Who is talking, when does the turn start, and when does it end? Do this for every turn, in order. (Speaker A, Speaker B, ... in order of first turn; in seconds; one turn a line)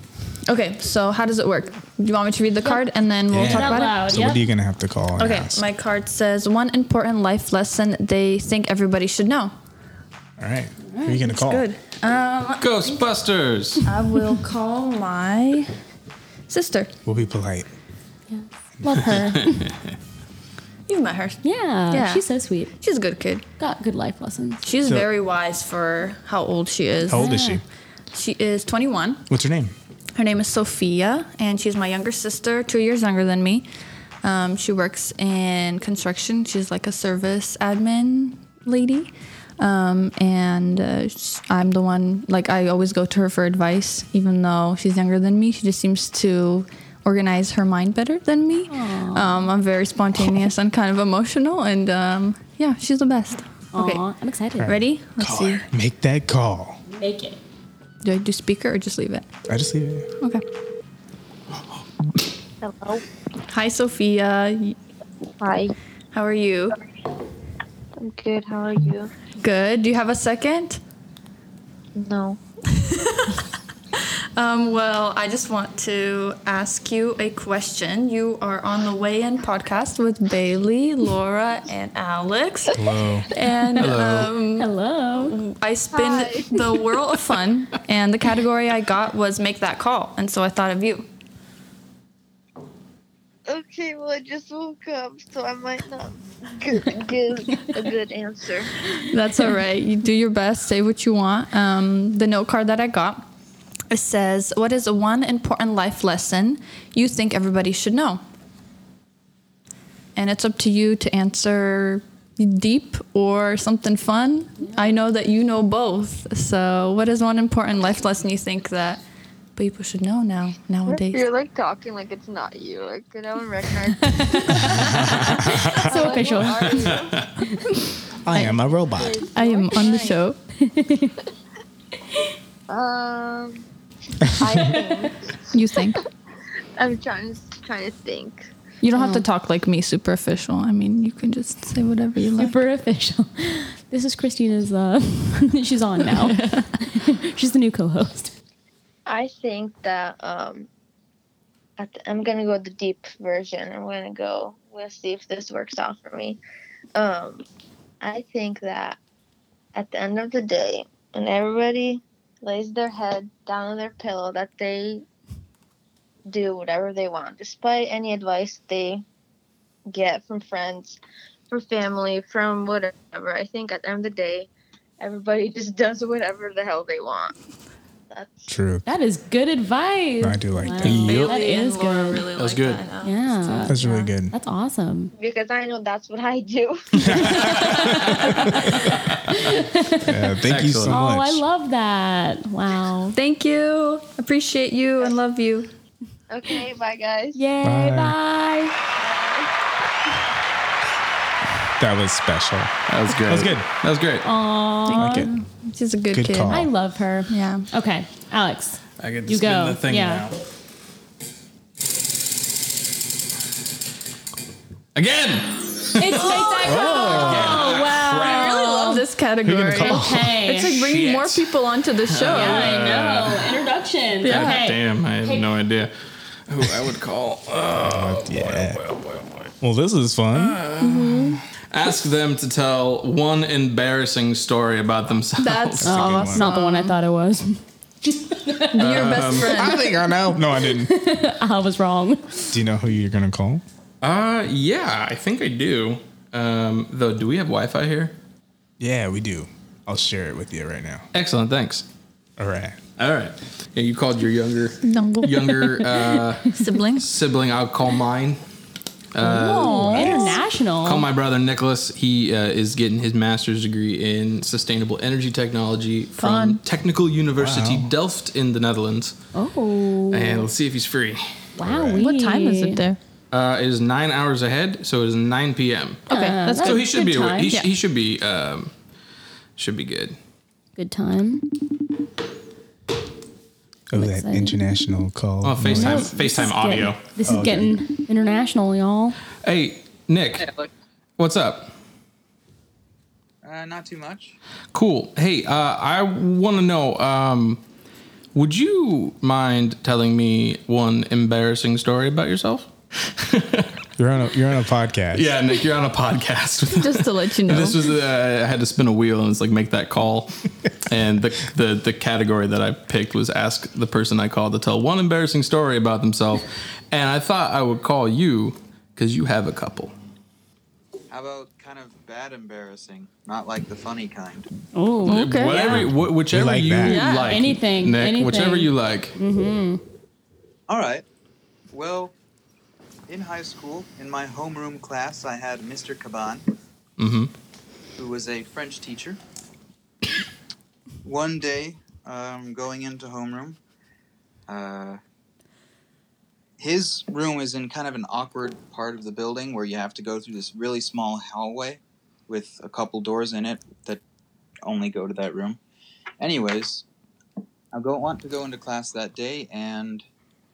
Speaker A: 0.5-4.2
Speaker B: 2.6-4.4
Speaker C: 3.3-5.6
Speaker A: 5.2-9.5
Speaker C: 10.4-11.7
Speaker A: 11.1-12.9
Speaker D: 12.6-13.9
Speaker A: 13.8-15.7
Speaker A: 16.5-16.9
Speaker C: 17.1-17.7
Speaker B: 18.3-19.7
Speaker C: 18.8-19.3
Speaker A: 18.9-19.4
Speaker D: 19.4-19.7
Speaker A: 20.9-23.4
Speaker B: 21.4-22.7
Speaker B: 23.6-24.7
Speaker A: 24.6-27.4
Speaker C: 27.1-27.6
Speaker B: 27.1-27.6
Speaker A: 28.1-29.3
Speaker C: 29.3-29.8
Speaker A: 30.1-33.7
Speaker A: 34.2-54.0
Speaker B: 48.7-49.5
Speaker B: 53.7-54.7
Speaker C: 54.6-56.8
Speaker A: 54.6-55.7
Speaker B: 56.9-57.4
Speaker A: 58.0-59.3
Speaker C: 59.5-60.1
Speaker E: 62.6-63.0
Speaker A: 63.5-64.8
Speaker E: 65.4-65.7
Speaker A: 66.1-66.8
Speaker E: 68.0-69.1
Speaker A: 69.4-70.8
Speaker E: 72.0-72.4
Speaker A: 72.7-73.5
Speaker A: 74.0-84.7
Speaker C: 82.8-83.3
Speaker D: 83.8-84.3
Speaker B: 84.6-85.4
Speaker A: 85.3-91.1
Speaker E: 85.9-86.7
Speaker E: 93.5-98.7
Speaker A: 99.0-103.3
Speaker A: 103.9-108.2
Speaker A: 110.2-119.0
Speaker A: 119.6-121.2
Speaker E: 120.9-124.7
Speaker B: 124.1-127.6
Speaker A: 124.2-124.9
Speaker C: 124.7-126.0
Speaker E: 125.2-127.3
Speaker D: 126.7-127.3
Speaker C: 128.2-129.2
Speaker E: 128.9-130.2
Speaker A: 129.3-130.4
Speaker B: 130.6-131.1
Speaker E: 132.7-133.7
Speaker E: 134.3-135.2
Speaker A: 135.5-136.0
Speaker E: 136.8-138.5
Speaker A: 138.8-142.5
Speaker B: 138.9-139.2
Speaker B: 142.4-148.3
Speaker A: 146.3-146.6
Speaker E: 149.1-150.7
Speaker E: 151.8-156.4
Speaker E: 156.9-157.5
Speaker E: 158.0-159.0
Speaker E: 159.8-165.0
Speaker E: 166.3-169.0
Speaker E: 169.9-171.0
Speaker E: 171.5-174.5
Speaker E: 175.0-177.3
Speaker E: 178.1-178.5
Speaker C: 178.5-178.9
Speaker B: 178.9-182.2
Speaker C: 180.2-181.2
Speaker A: 180.7-184.1
Speaker D: 180.8-181.3
Speaker D: 182.4-182.8
Speaker B: 183.0-183.8
Speaker C: 183.7-184.3
Speaker B: 184.3-185.1
Speaker E: 185.2-187.6
Speaker C: 187.0-191.4
Speaker D: 187.3-189.4
Speaker A: 187.6-188.2
Speaker B: 188.2-190.2
Speaker D: 190.4-191.0
Speaker B: 190.9-193.2
Speaker A: 193.1-195.7
Speaker E: 196.3-197.4
Speaker B: 197.3-198.8
Speaker C: 197.6-198.2
Speaker E: 199.0-199.5
Speaker C: 201.8-203.7
Speaker D: 202.9-204.3
Speaker B: 204.2-205.3
Speaker A: 204.9-206.7
Speaker C: 204.9-205.3
Speaker C: 206.1-206.7
Speaker B: 206.5-210.3
Speaker A: 207.3-207.7
Speaker D: 209.0-210.4
Speaker D: 214.9-218.6
Speaker B: 216.0-219.1
Speaker A: 216.2-222.9
Speaker D: 219.5-220.2
Speaker B: 219.8-220.8
Speaker D: 220.7-221.5
Speaker D: 222.1-223.6
Speaker B: 222.3-225.5
Speaker A: 224.2-224.6
Speaker D: 224.2-225.9
Speaker D: 226.5-229.5
Speaker C: 227.8-228.8
Speaker C: 229.6-230.6
Speaker D: 230.3-236.1
Speaker A: 230.8-231.4
Speaker A: 235.4-237.0
Speaker C: 235.8-236.5
Speaker B: 235.8-237.6
Speaker B: 238.2-239.1
Speaker A: 238.7-240.0
Speaker D: 238.8-239.6
Speaker C: 239.4-240.9
Speaker B: 239.7-239.9
Speaker B: 240.5-242.6
Speaker C: 242.5-243.6
Speaker D: 244.0-248.2
Speaker C: 248.8-251.1
Speaker D: 251.1-251.8
Speaker C: 252.4-252.8
Speaker D: 253.0-258.4
Speaker A: 254.8-255.7
Speaker A: 256.5-257.1
Speaker D: 259.1-269.2
Speaker A: 259.2-260.4
Speaker B: 259.6-261.1
Speaker A: 266.2-266.6
Speaker C: 267.4-267.9
Speaker B: 269.3-270.5
Speaker D: 270.1-271.5
Speaker B: 271.6-272.8
Speaker C: 271.6-272.0
Speaker A: 272.0-273.0
Speaker D: 273.3-278.7
Speaker A: 276.1-276.9
Speaker B: 276.1-277.6
Speaker D: 279.6-280.2
Speaker B: 280.8-281.4
Speaker C: 283.9-286.1
Speaker B: 283.9-284.6
Speaker D: 285.4-287.2
Speaker B: 285.7-289.2
Speaker C: 287.2-287.7
Speaker D: 289.4-290.5
Speaker F: 290.4-290.7
Speaker D: 291.2-291.7
Speaker F: 293.4-294.4
Speaker D: 294.7-297.6
Speaker D: 298.3-303.8
Speaker C: 304.0-305.4
Speaker D: 305.1-319.9
Speaker A: 306.7-307.9
Speaker F: 321.1-324.5
Speaker B: 324.7-325.8
Speaker D: 325.1-329.2
Speaker A: 325.1-325.7
Speaker C: 325.6-327.0
Speaker A: 326.8-327.4
Speaker B: 327.0-329.8
Speaker F: 330.7-331.0
Speaker F: 331.7-332.1
Speaker F: 333.1-336.4
Speaker D: 337.0-337.3
Speaker F: 338.0-339.2
Speaker F: 341.0-343.6
Speaker F: 344.5-345.0
Speaker F: 346.6-354.0
Speaker F: 354.6-355.6
Speaker F: 356.2-356.9
Speaker F: 357.7-360.0